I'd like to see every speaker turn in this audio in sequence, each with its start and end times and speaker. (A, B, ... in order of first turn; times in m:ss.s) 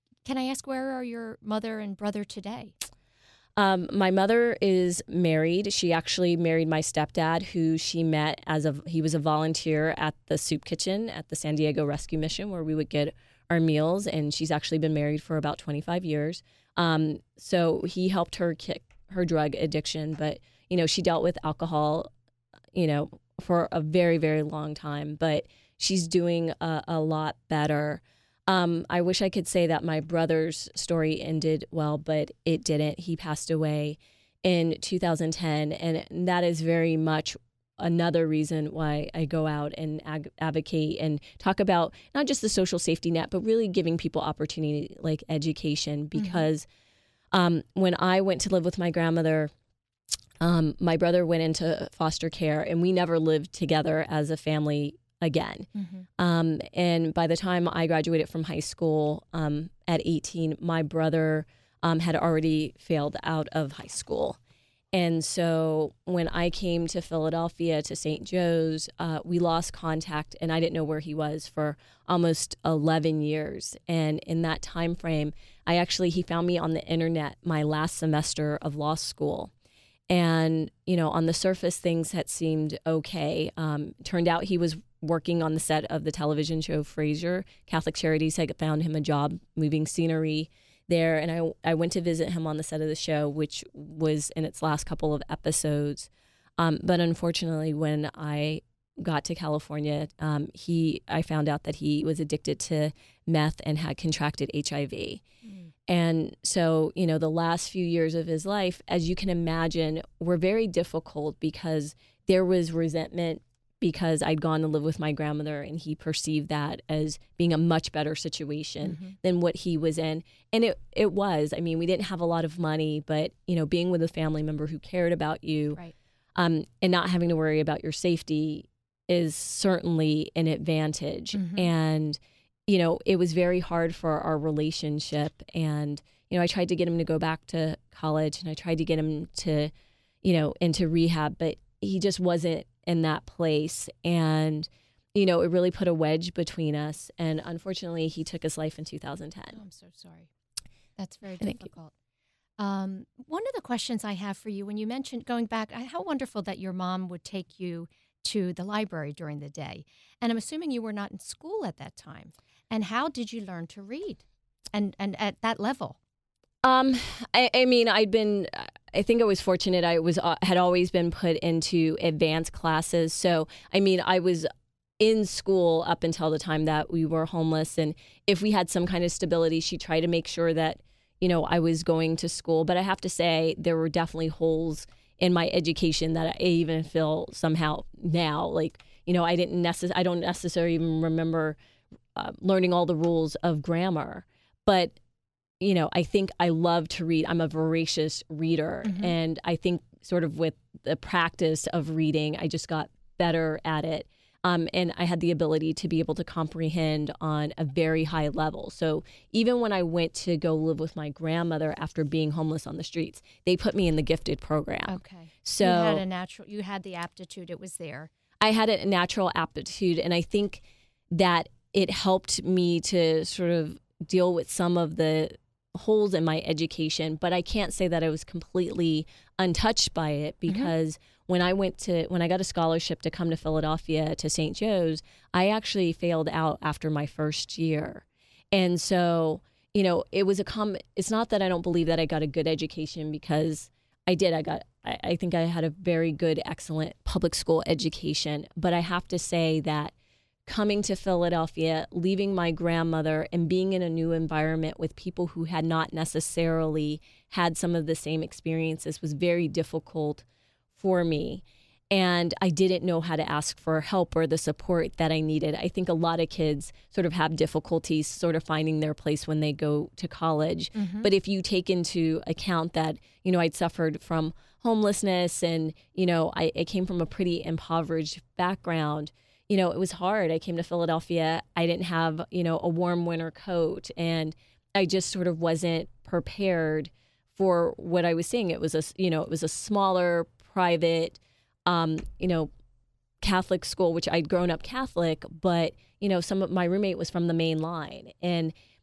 0:00.2-0:02.7 A
0:03.6-0:22.1 B
0:22.7-0:46.6 B
0:46.1-0:46.4 A
0:47.3-0:49.5 B
0:50.4-1:04.4 B
0:55.7-0:56.0 A
1:04.9-1:19.5 B
1:20.1-1:45.2 B
1:45.4-1:45.7 A
1:45.9-2:05.8 B
1:58.8-1:59.1 A
2:06.4-2:19.7 B
2:11.3-2:11.7 A
2:20.2-2:29.6 B
2:29.5-2:30.3 A
2:31.0-2:31.9 A
2:32.6-2:46.0 A
2:46.6-2:54.5 B
2:55.0-3:11.6 B
3:12.2-3:15.0 B
3:15.6-3:36.0 B
3:18.8-3:19.1 A
3:34.9-3:38.1 A
3:38.4-4:09.9 B
3:50.5-3:50.7 A
4:10.5-4:20.2 B
4:20.8-4:52.5 B
4:30.8-4:31.1 A
4:53.2-4:58.5 B